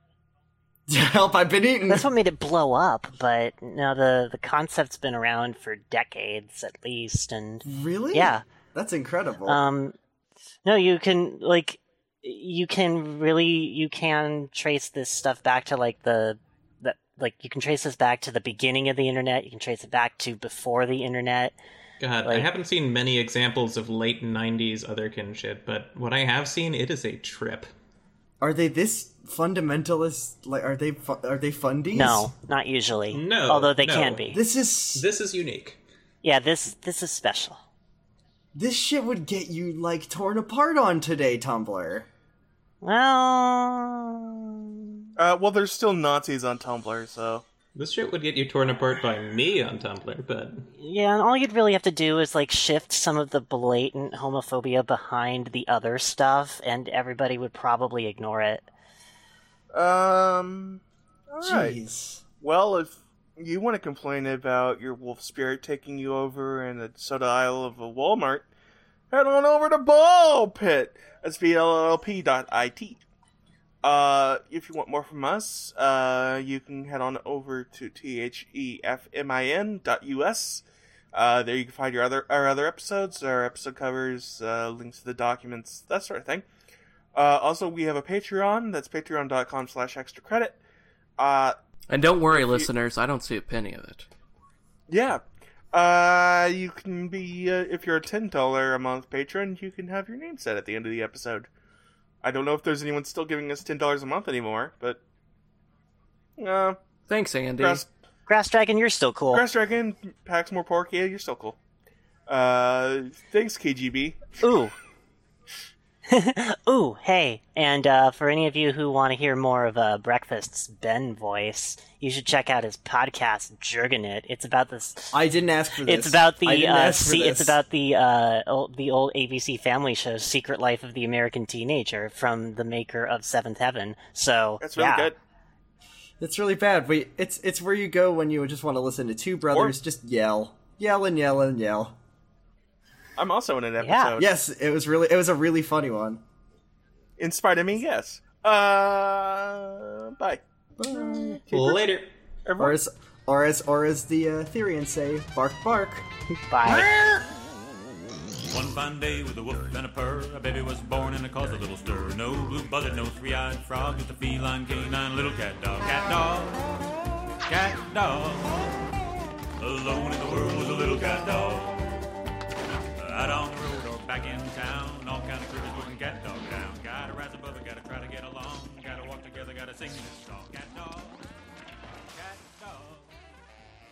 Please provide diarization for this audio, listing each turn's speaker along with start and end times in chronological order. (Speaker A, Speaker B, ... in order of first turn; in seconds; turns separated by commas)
Speaker A: 0.9-2.1, Speaker B: 1.9-8.4, Speaker A: 7.7-9.6, Speaker B: 9.5-9.9, Speaker B: 10.7-21.6, Speaker C: 22.0-27.7, Speaker B: 22.2-22.5, Speaker A: 28.4-32.3, Speaker B: 31.9-34.4, Speaker C: 33.1-34.4, Speaker A: 34.3-35.1, Speaker C: 34.9-35.8, Speaker B: 36.2-37.6, Speaker A: 38.5-42.1, Speaker B: 42.8-45.1, Speaker D: 45.2-47.4, Speaker C: 47.8-50.7, Speaker B: 50.8-58.7, Speaker D: 59.7-61.8, Speaker A: 61.4-62.2, Speaker D: 62.4-68.5, Speaker D: 69.1-73.0, Speaker D: 73.8-86.5, Speaker D: 87.1-90.6, Speaker D: 91.2-91.6, Speaker E: 91.9-94.1, Speaker D: 92.3-92.7, Speaker D: 94.9-101.5, Speaker D: 102.2-105.0, Speaker D: 106.4-106.8, Speaker E: 107.1-107.9, Speaker D: 107.6-107.8, Speaker B: 108.3-109.5, Speaker D: 109.3-111.6, Speaker D: 112.3-114.4, Speaker B: 114.4-114.8, Speaker B: 116.1-125.2, Speaker A: 125.1-127.6, Speaker B: 125.9-135.1, Speaker D: 134.6-135.2, Speaker A: 136.2-142.0, Speaker D: 143.2-144.3, Speaker B: 143.8-144.1, Speaker A: 144.2-146.2, Speaker D: 147.2-150.4, Speaker A: 150.8-151.4, Speaker D: 151.3-151.8, Speaker C: 151.5-152.1, Speaker D: 152.5-152.8, Speaker A: 152.6-156.1, Speaker B: 156.5-156.9, Speaker C: 156.7-157.2, Speaker F: 158.5-166.6, Speaker F: 167.5-168.7, Speaker F: 169.6-171.9, Speaker F: 173.0-181.2, Speaker F: 182.1-183.1